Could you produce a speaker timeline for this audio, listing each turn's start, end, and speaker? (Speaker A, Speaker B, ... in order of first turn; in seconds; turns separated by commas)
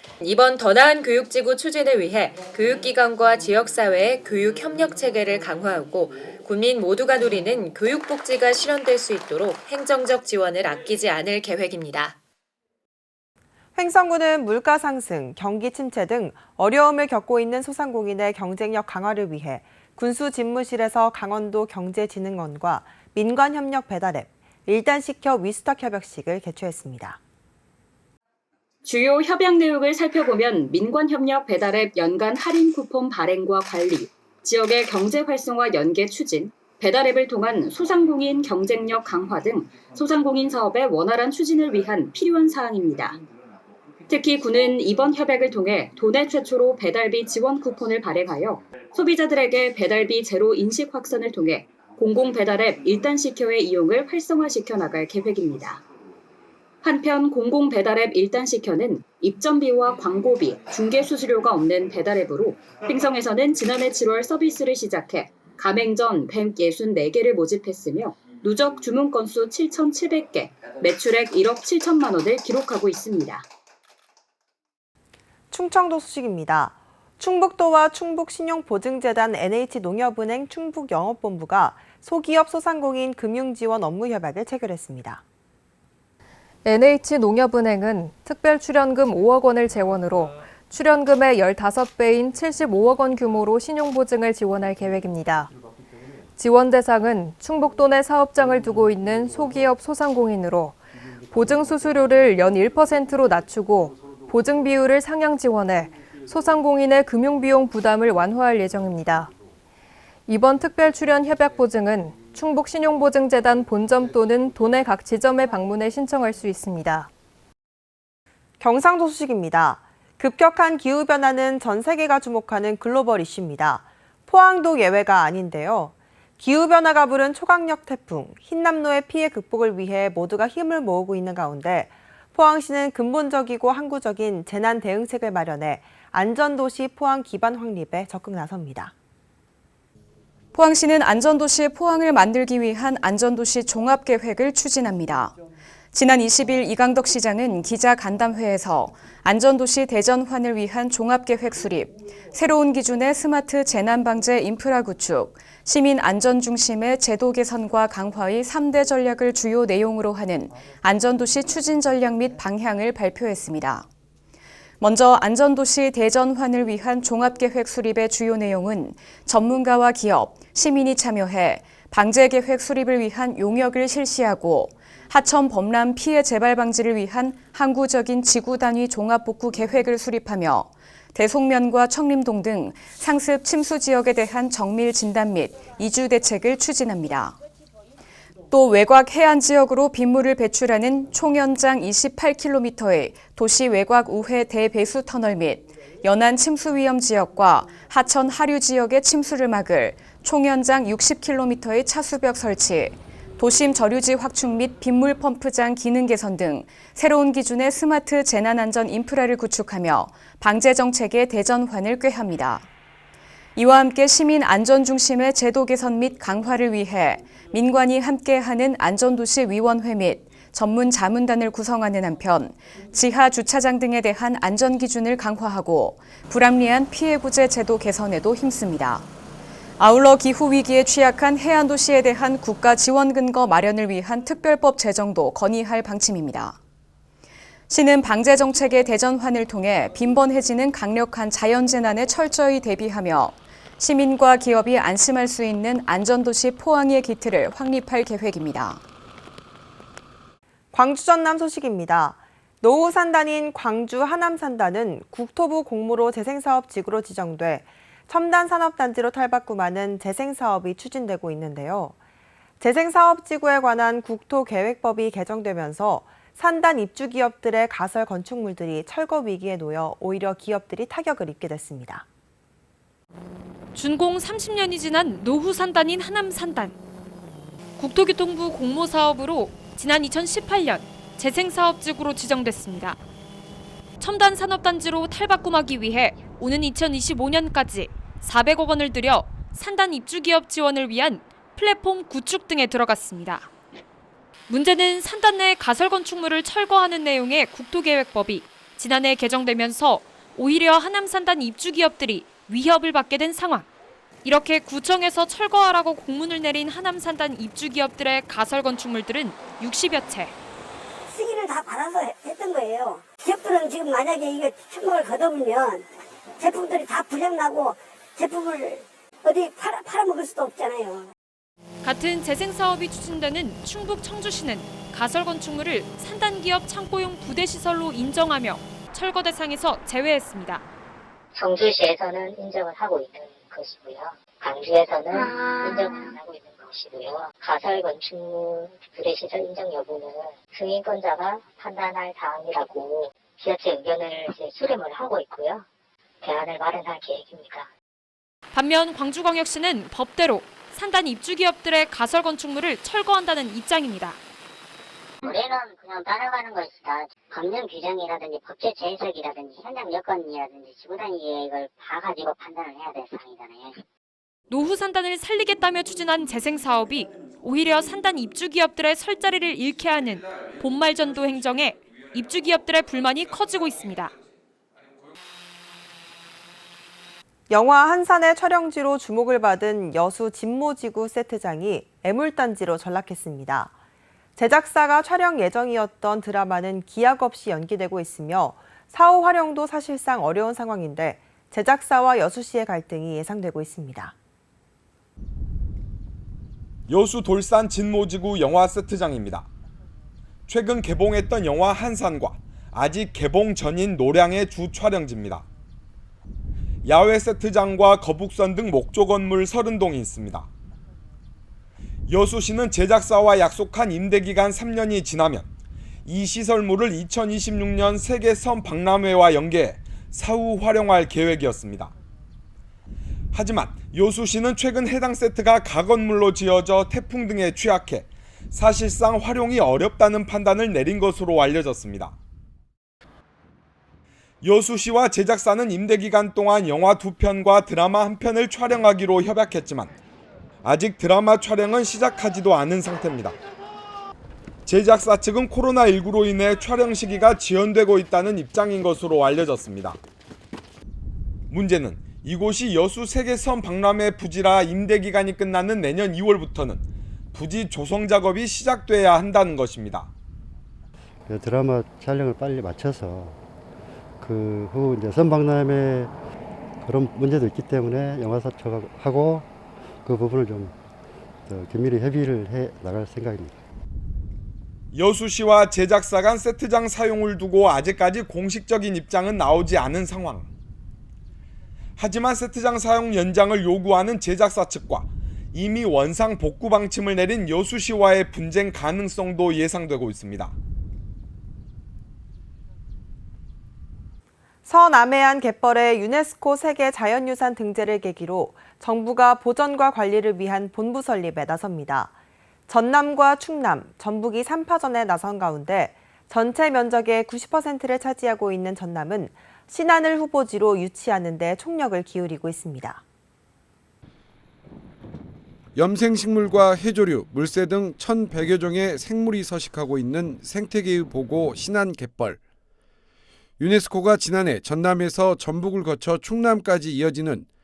Speaker A: 0.2-12.2, Speaker B: 13.8-27.2, Speaker C: 28.8-43.2, Speaker C: 44.1-55.8, Speaker C: 56.8-73.5, Speaker B: 75.5-85.2, Speaker D: 86.7-95.5, Speaker D: 96.4-109.3, Speaker D: 110.3-117.1, Speaker B: 118.6-138.9, Speaker E: 140.5-145.3, Speaker E: 145.9-163.9, Speaker E: 164.8-187.4, Speaker E: 188.5-212.7, Speaker E: 213.6-229.1, Speaker E: 229.8-236.6, Speaker E: 237.7-248.8, Speaker B: 250.7-261.9, Speaker B: 262.6-272.1, Speaker F: 273.7-276.8, Speaker F: 277.8-283.0, Speaker F: 284.0-293.5, Speaker F: 294.5-303.7, Speaker F: 304.2-310.4, Speaker G: 311.1-315.9, Speaker G: 316.4-321.1, Speaker F: 321.8-330.6, Speaker H: 331.3-345.6, Speaker H: 346.2-347.7, Speaker F: 348.5-354.2, Speaker H: 355.2-363.8, Speaker F: 364.5-374.1, Speaker B: 377.5-383.7, Speaker B: 384.4-394.1, Speaker I: 396.9-399.5, Speaker I: 400.5-405.4, Speaker I: 406.9-410.5, Speaker I: 412.1-415.5, Speaker I: 416.1-421.9, Speaker I: 423.3-432.1, Speaker I: 434.4-439.9, Speaker I: 440.6-443.4, Speaker I: 444.7-450.0, Speaker I: 451.5-460.1, Speaker J: 461.3-463.4, Speaker J: 464.2-466.1, Speaker J: 466.8-469.5, Speaker J: 470.0-470.8, Speaker J: 471.4-473.6, Speaker I: 474.9-480.5, Speaker I: 482.0-490.5, Speaker B: 494.7-502.1, Speaker B: 502.7-513.0, Speaker K: 515.8-522.4, Speaker K: 523.6-527.5